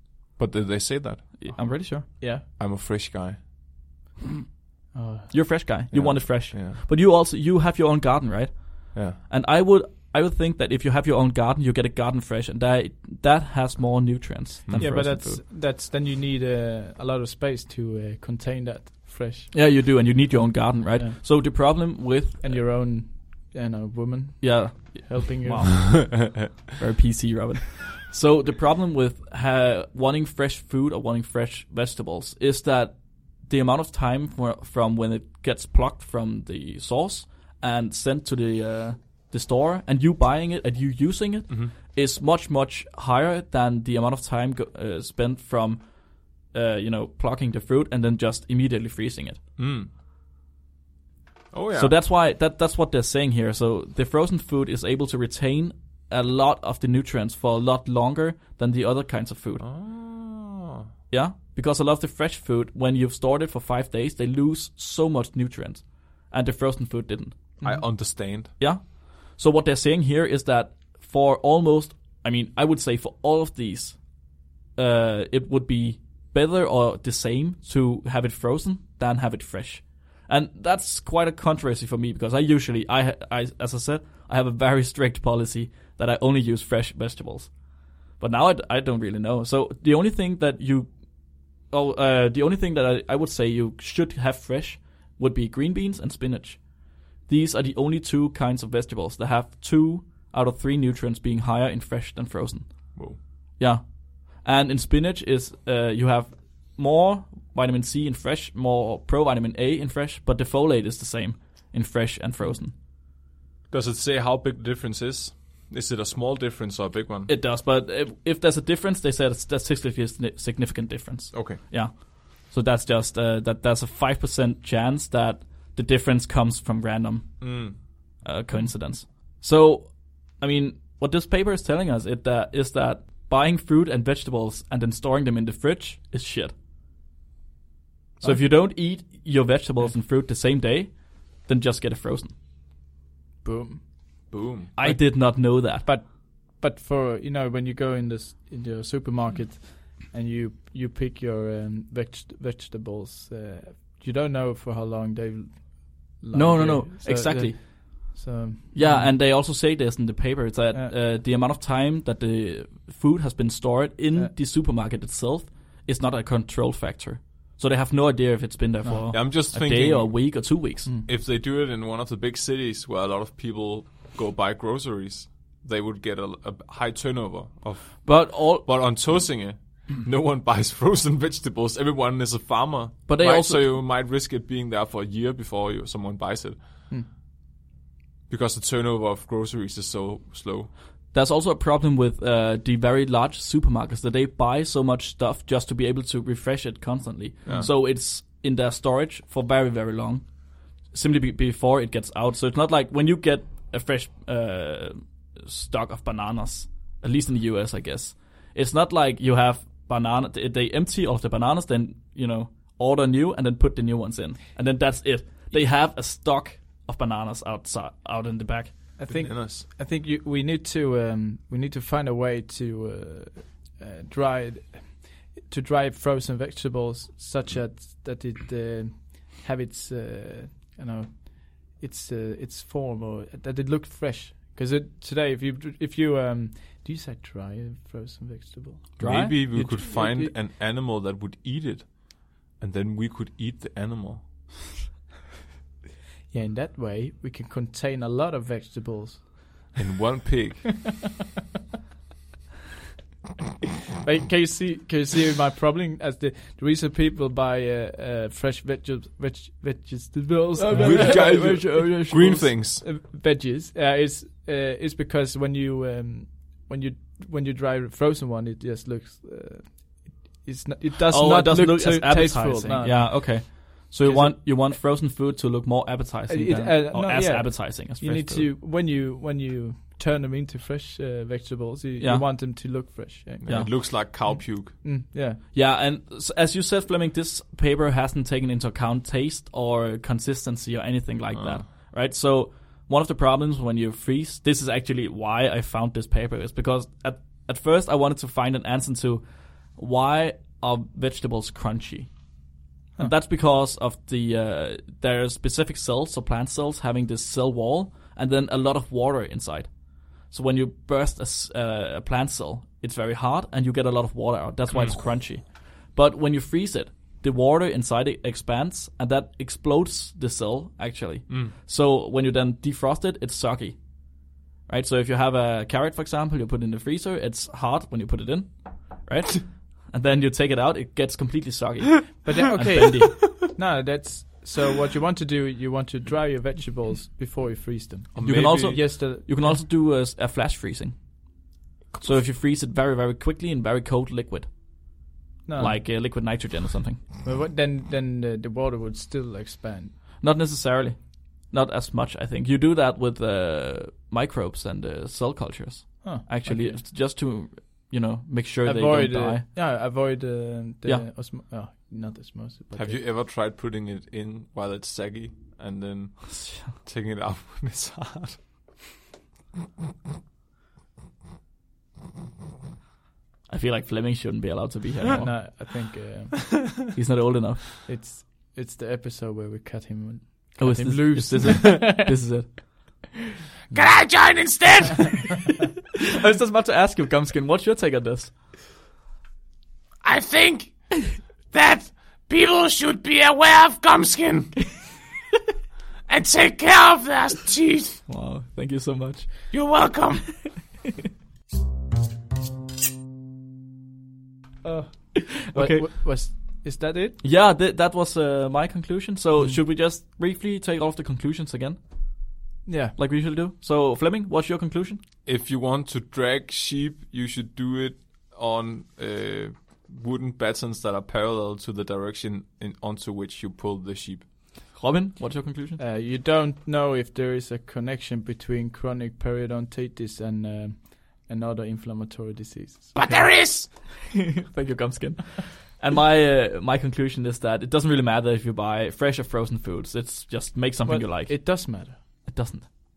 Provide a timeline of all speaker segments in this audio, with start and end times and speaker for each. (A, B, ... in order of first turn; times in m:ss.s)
0:00.4-0:01.6 A
0:01.4-0:02.1 B
0:01.6-0:02.4 C
0:02.5-0:03.4 A
0:04.9-0:05.3 C
0:05.3-0:15.4 B
0:05.9-0:06.8 A
0:08.9-0:09.2 A
0:14.7-0:15.0 A
0:14.8-0:19.5 C
0:19.5-0:22.6 B
0:21.0-0:21.9 C
0:22.4-0:25.9 C
0:24.4-0:49.4 B
0:49.6-0:49.9 A
0:51.5-0:52.0 A
0:51.7-0:59.6 B
0:59.6-1:00.9 A
1:01.1-1:07.4 B
1:07.6-1:07.8 C
1:07.6-1:08.5 A
1:07.9-1:27.6 B
1:28.1-1:30.9 B
1:31.6-1:43.0 B
1:43.6-1:52.7 B
1:53.7-1:57.3 A
1:57.3-2:16.5 B
2:01.3-2:01.6 A
2:07.4-2:07.8 A
2:18.2-2:18.4 C
2:18.2-2:22.3 B
2:23.4-2:39.1 C
2:24.3-2:24.7 A
2:24.8-2:25.9 B
2:36.3-2:38.2 B
2:38.7-2:50.9 B
2:49.1-3:06.8 A
2:58.0-2:59.2 B
3:03.1-3:03.8 B
3:08.3-3:10.7 A
3:11.1-3:38.9 B
3:17.4-3:17.7 A
3:39.0-4:00.3 C
3:39.1-3:39.6 A
3:59.0-4:04.2 A
3:59.0-3:59.5 B
4:06.3-4:09.7 C
4:09.8-4:10.8 A
4:14.0-4:34.4 C
4:20.6-4:22.5 B
4:20.7-4:22.8 A
4:31.1-4:38.5 B
4:36.3-4:45.4 C
4:42.0-4:42.2 B
4:43.4-4:44.8 A
4:43.4-4:43.7 B
4:45.5-5:02.1 B
4:51.3-4:51.6 A
5:03.0-5:33.4 B
5:14.7-5:15.0 A
5:32.2-5:39.6 C
5:38.1-5:38.8 A
5:38.2-5:41.0 B
5:42.0-5:47.0 B
5:45.4-5:45.8 C
5:47.2-5:49.9 C
5:50.2-5:59.4 B
5:56.0-5:56.8 C
5:58.6-6:03.0 C
6:02.7-6:08.4 A
6:06.3-6:06.7 B
6:13.5-6:15.7 B
6:15.2-6:16.7 C
6:16.7-6:17.7 B
6:17.8-6:22.1 C
6:20.6-6:23.1 B
6:23.7-6:25.4 D
6:25.9-6:28.4 B
6:30.0-6:34.5 D
6:36.1-6:38.0 D
6:38.1-6:39.5 B
6:39.5-6:40.6 D
6:44.6-6:47.2 C
6:45.5-6:45.9 B
6:47.2-6:52.4 B
6:52.6-6:52.9 C
6:53.0-6:55.0 B
6:55.2-7:04.3 A
7:04.7-7:05.8 B
7:05.8-7:12.9 C
7:12.9-7:13.7 D
7:13.1-7:22.7 B
7:20.8-7:22.3 C